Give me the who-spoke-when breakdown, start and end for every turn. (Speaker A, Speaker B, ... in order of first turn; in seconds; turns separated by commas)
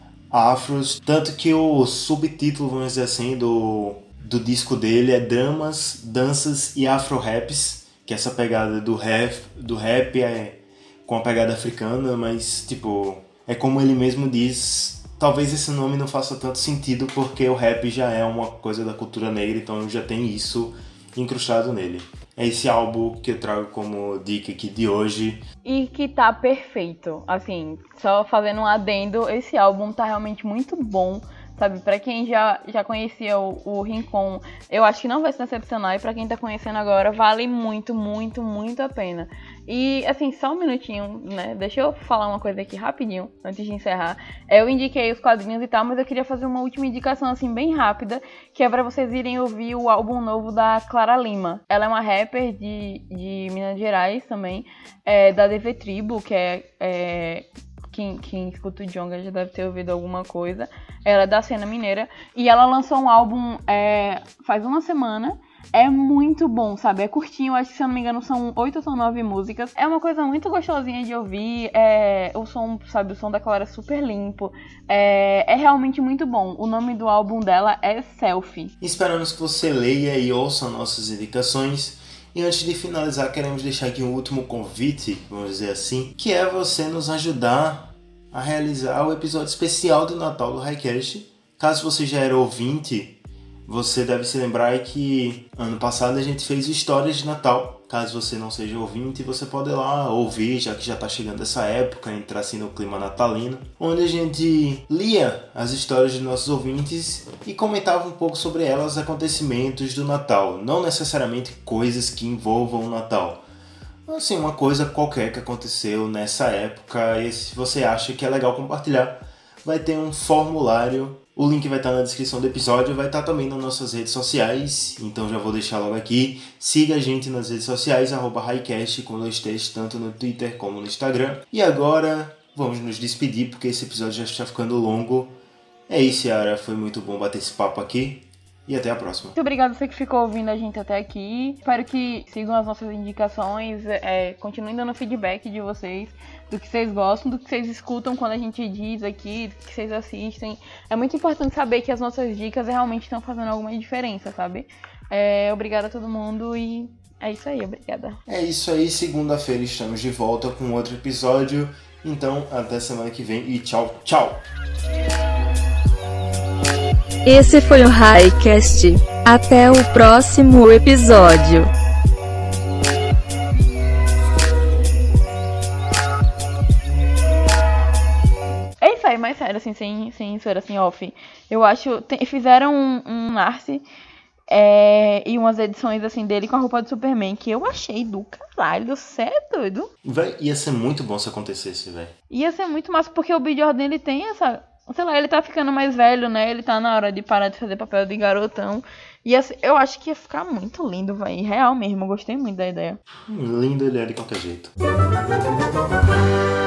Speaker A: 0.3-25.4, Speaker B: 25.6-78.7, Speaker A: 78.8-113.4, Speaker A: 114.0-135.3, Speaker A: 135.9-139.3, Speaker B: 139.3-158.2, Speaker A: 158.3-164.4, Speaker C: 167.2-171.7, Speaker B: 178.8-183.8, Speaker B: 184.5-189.9, Speaker A: 190.0-192.1, Speaker B: 192.3-203.0, Speaker A: 203.3-204.7